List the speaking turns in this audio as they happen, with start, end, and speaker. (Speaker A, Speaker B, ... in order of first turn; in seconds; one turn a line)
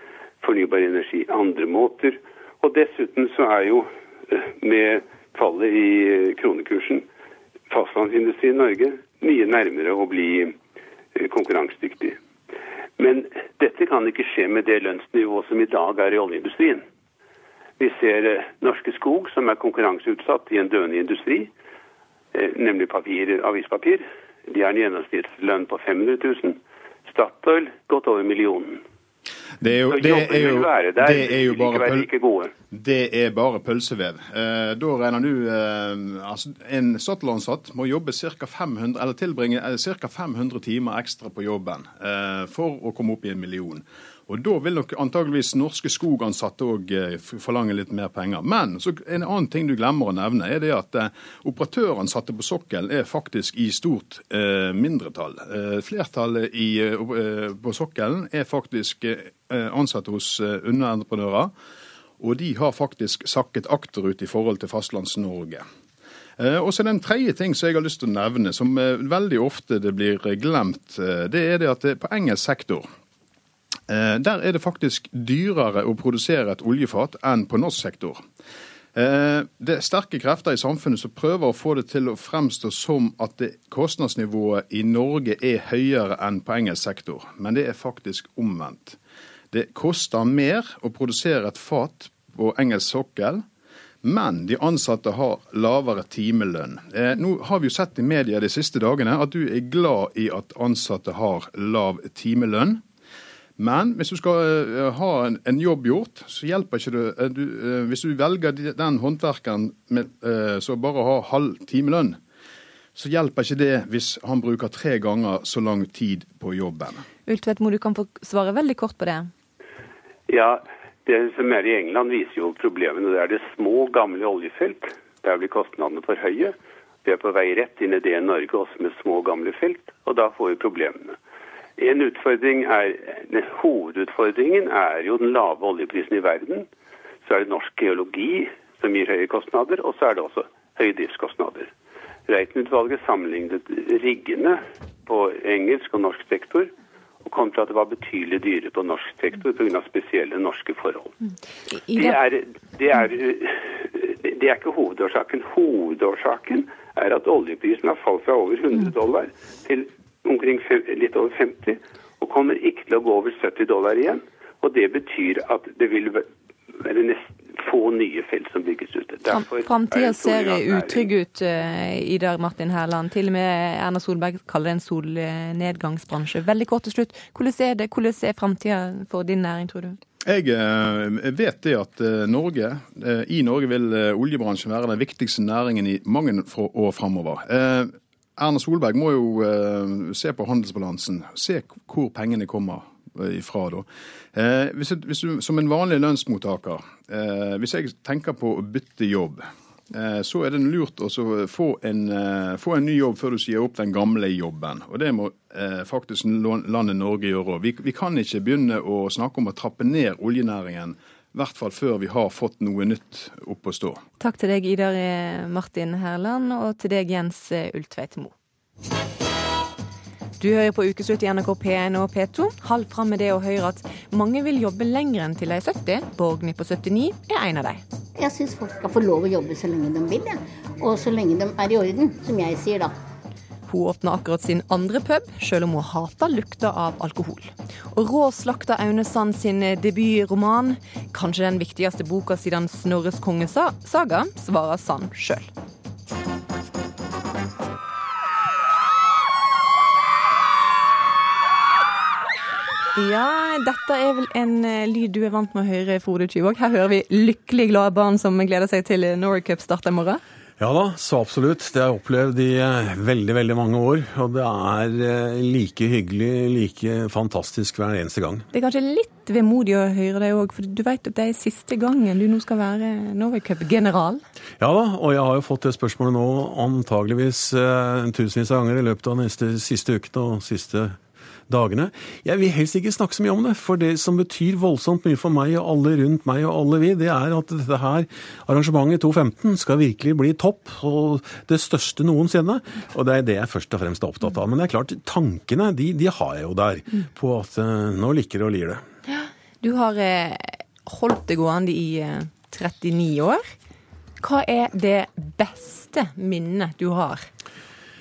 Speaker A: 0.4-7.0
Speaker A: 7.7-10.5
Speaker A: 11.2-12.2
Speaker A: 13.0-16.8
Speaker A: 17.8-21.5
Speaker A: 22.4-28.8
Speaker B: 29.6-32.1
Speaker A: 29.9-32.5
Speaker B: 32.7-61.5
Speaker B: 62.2-65.6
Speaker B: 66.4-72.9
Speaker B: 73.9-78.2
Speaker B: 79.0-89.0
Speaker B: 89.5-93.5
Speaker B: 94.0-102.8
Speaker B: 103.6-112.2
Speaker B: 113.0-117.0
Speaker C: 117.3-119.3
Speaker A: 120.3-126.5
Speaker A: 127.0-131.2
Speaker A: 131.8-136.7
Speaker A: 137.2-141.7
Speaker A: 142.3-146.7
Speaker A: 147.2-151.1
Speaker C: 151.7-152.2
Speaker A: 152.0-166.3
Speaker A: 166.8-171.1
Speaker C: 169.3-180.0
Speaker B: 180.2-214.0
Speaker C: 214.2-218.3
Speaker C: 220.4-227.8
Speaker D: 228.2-232.9
Speaker C: 233.7-245.5
Speaker C: 252.9-260.2
Speaker E: 260.6-268.4
Speaker C: 268.5-274.2
Speaker E: 274.6-298.8
Speaker C: 299.1-303.5
Speaker C: 304.2-307.3